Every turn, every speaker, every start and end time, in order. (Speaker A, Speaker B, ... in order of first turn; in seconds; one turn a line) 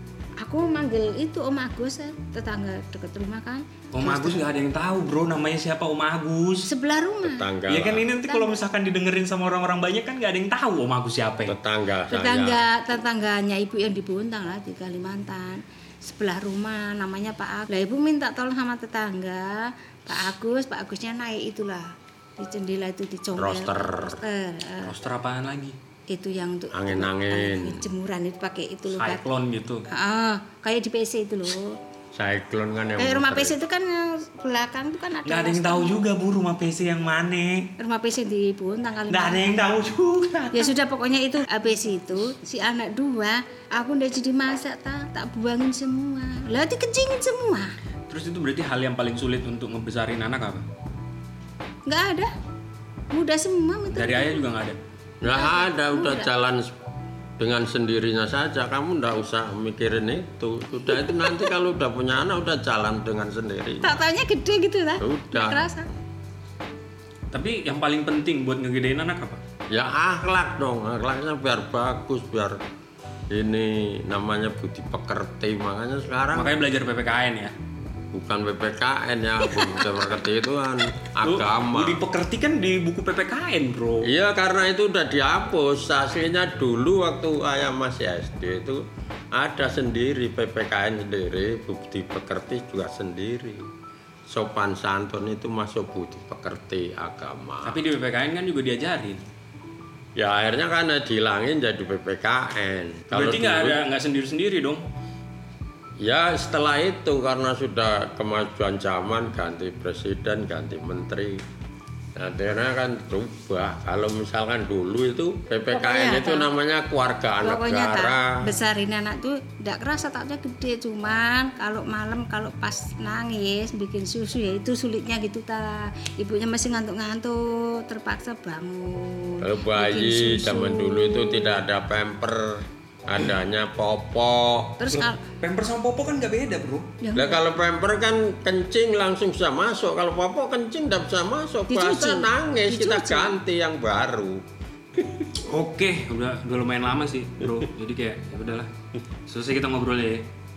Speaker A: 0.4-4.4
Speaker B: 3.9-6.7
Speaker A: 6.7-7.5
Speaker C: 7.2-8.1
Speaker B: 7.7-11.6
Speaker A: 8.2-8.6
Speaker C: 11.4-12.6
Speaker A: 12.1-21.9
Speaker A: 22.4-24.9
Speaker C: 23.4-24.2
Speaker B: 24.8-25.8
Speaker A: 26.1-29.2
Speaker C: 26.7-27.9
Speaker B: 28.9-29.8
Speaker A: 29.9-31.7
Speaker C: 32.1-33.5
Speaker A: 33.0-36.0
Speaker B: 35.2-37.7
Speaker A: 37.8-39.7
Speaker B: 39.1-40.7
Speaker A: 40.5-47.7
Speaker B: 48.1-50.6
Speaker A: 51.9-52.3
Speaker A: 53.1-54.4
Speaker B: 53.9-54.8
Speaker C: 55.2-56.7
Speaker A: 55.2-56.3
Speaker C: 57.4-64.0
Speaker A: 61.0-61.4
Speaker A: 63.8-65.9
Speaker C: 65.0-65.7
Speaker B: 67.3-69.4
Speaker C: 69.7-72.6
Speaker C: 73.3-76.5
Speaker B: 76.3-77.5
Speaker C: 78.1-82.0
Speaker B: 79.5-79.9
Speaker B: 81.2-84.1
Speaker C: 84.0-88.8
Speaker C: 89.3-93.7
Speaker C: 94.3-97.8
Speaker B: 97.6-99.2
Speaker C: 100.2-103.8
Speaker B: 103.1-104.8
Speaker C: 106.0-111.4
Speaker C: 112.2-118.4
Speaker A: 115.7-116.5
Speaker A: 117.4-131.6
Speaker C: 129.4-134.8
Speaker A: 134.8-135.2
Speaker B: 134.9-136.9
Speaker A: 137.0-137.4
Speaker C: 137.1-144.4
Speaker A: 141.7-143.3
Speaker B: 145.3-148.7
Speaker B: 149.3-150.3